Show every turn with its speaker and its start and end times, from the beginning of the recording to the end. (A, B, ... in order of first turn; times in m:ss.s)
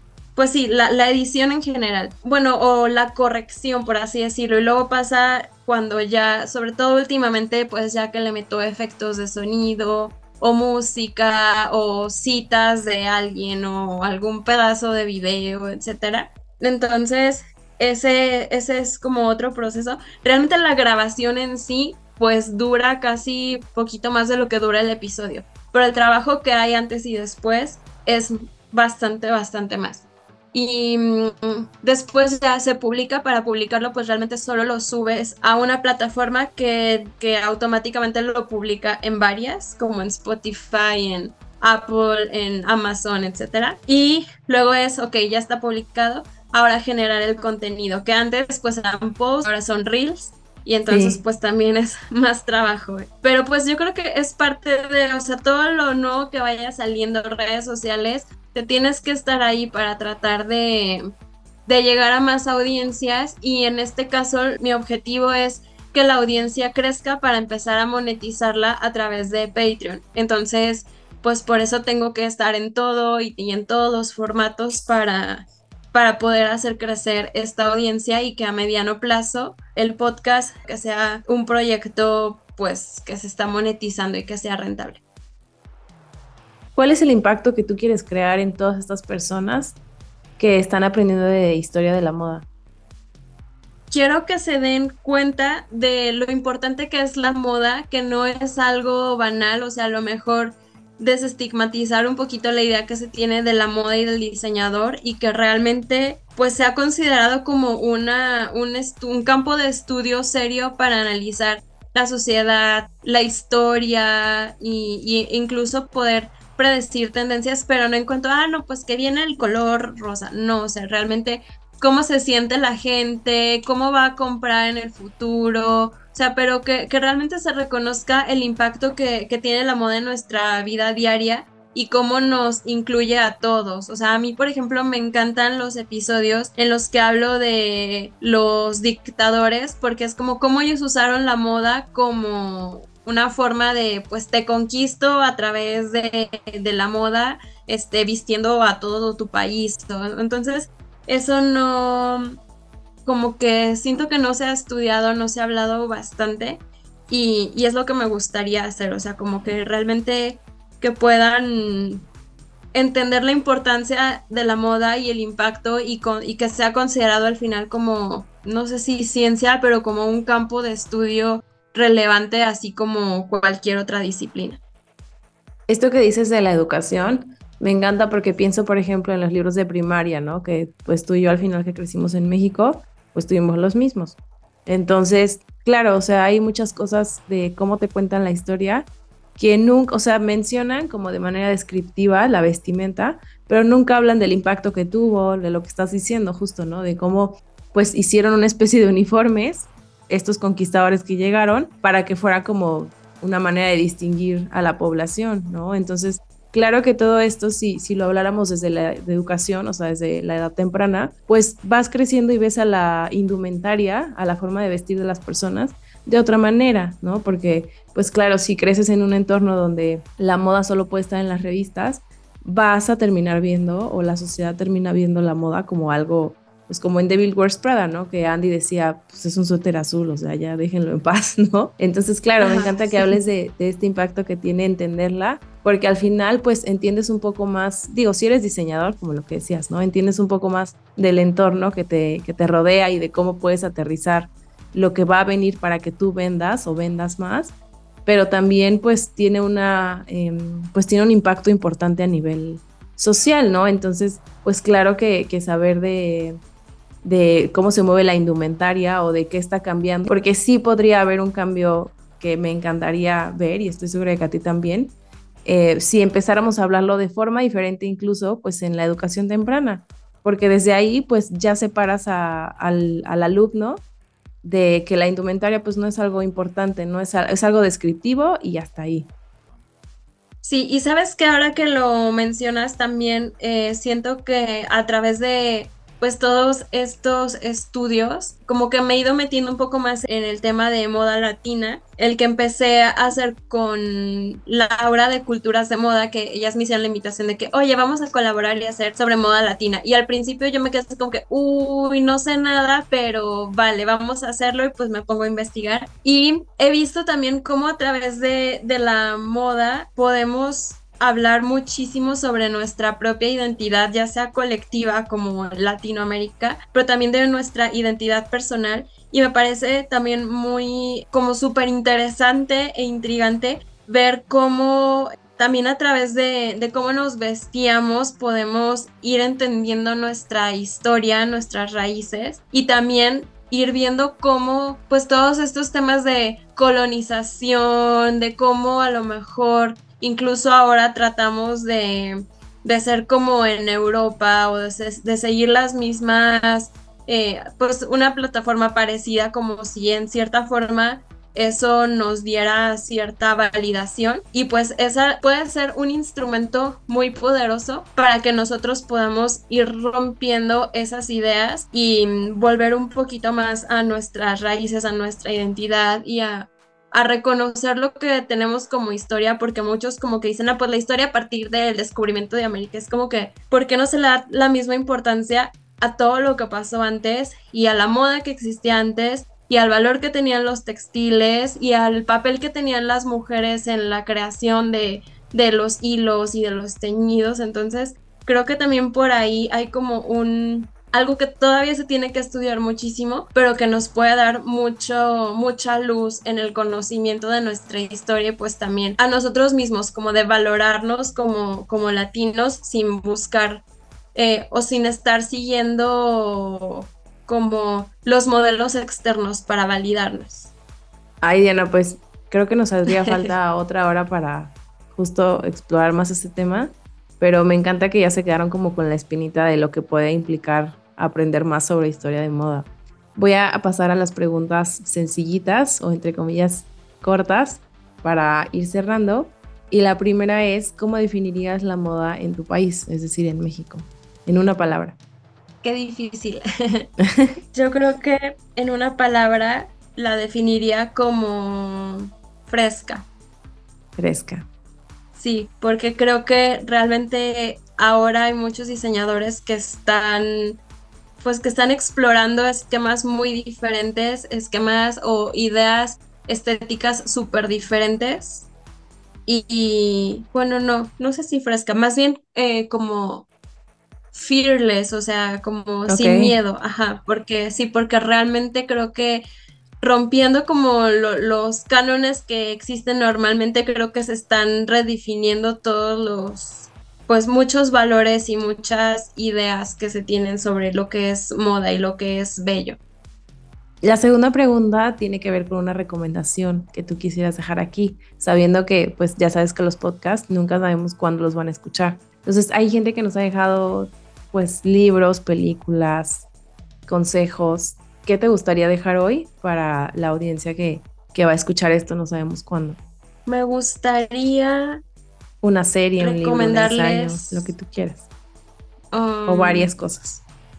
0:00.3-1:01.0 A
0:50.9-0:51.2 B
1:01.6-1:25.0 A
1:26.7-1:29.8 B
1:30.4-1:32.5 B
1:33.9-2:32.4 A
2:33.0-2:42.1 A
2:42.7-2:54.6 A
2:55.7-4:07.5 B
3:52.4-3:53.2 A
4:08.0-4:16.4 B
4:17.0-4:24.9 B
4:25.4-4:33.8 B
4:34.4-4:39.1 B
4:40.4-6:43.6 A
6:44.1-6:50.5 A
6:51.2-7:15.0 B
6:52.9-6:53.3 A
7:15.6-7:16.9 A
7:17.5-7:23.1 A
7:24.0-7:24.4 B
7:25.1-7:30.6 A
7:31.2-7:38.5 A
7:39.2-7:43.3 A
7:44.1-7:49.2 A
7:45.9-7:46.4 B
7:49.8-8:02.8 A
8:03.8-8:16.3 B
8:16.8-8:22.8 B
8:23.2-8:24.8 A
8:25.4-8:28.1 B
8:26.0-8:27.5 A
8:28.9-8:29.7 A
8:29.3-8:30.2 B